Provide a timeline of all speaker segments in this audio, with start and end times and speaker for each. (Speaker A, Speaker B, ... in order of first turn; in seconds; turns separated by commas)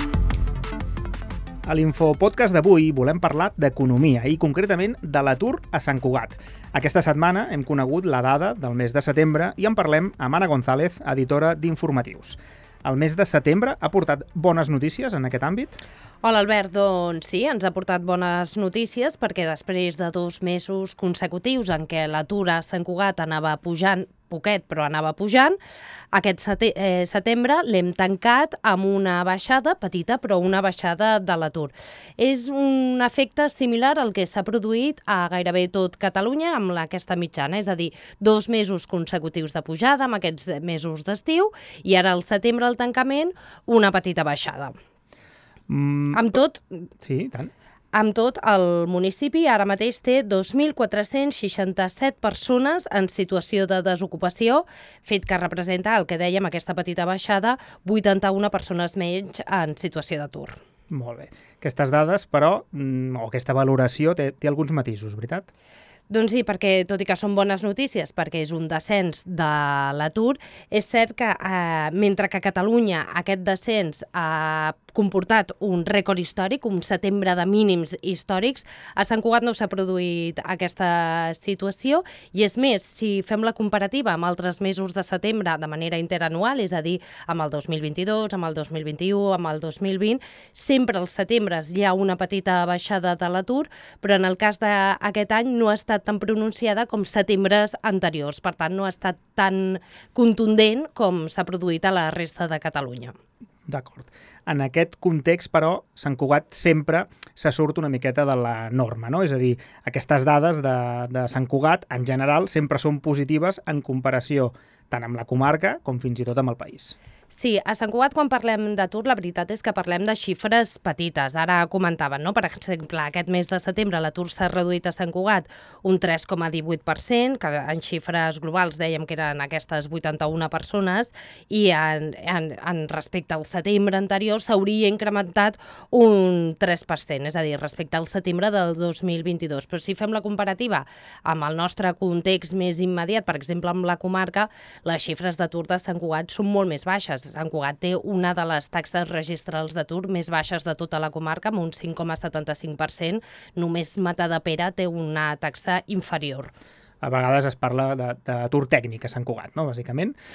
Speaker A: 1.6-15.8, Speaker B: 16.2-25.6, Speaker B: 26.1-44.7, Speaker A: 45.7-46.3, Speaker B: 46.1-46.9, Speaker A: 47.0-47.5, Speaker B: 47.9-60.5, Speaker A: 60.9-65.5, Speaker B: 66.1-103.1, Speaker A: 103.7-117.0, Speaker B: 117.3-156.5, Speaker A: 157.0-160.2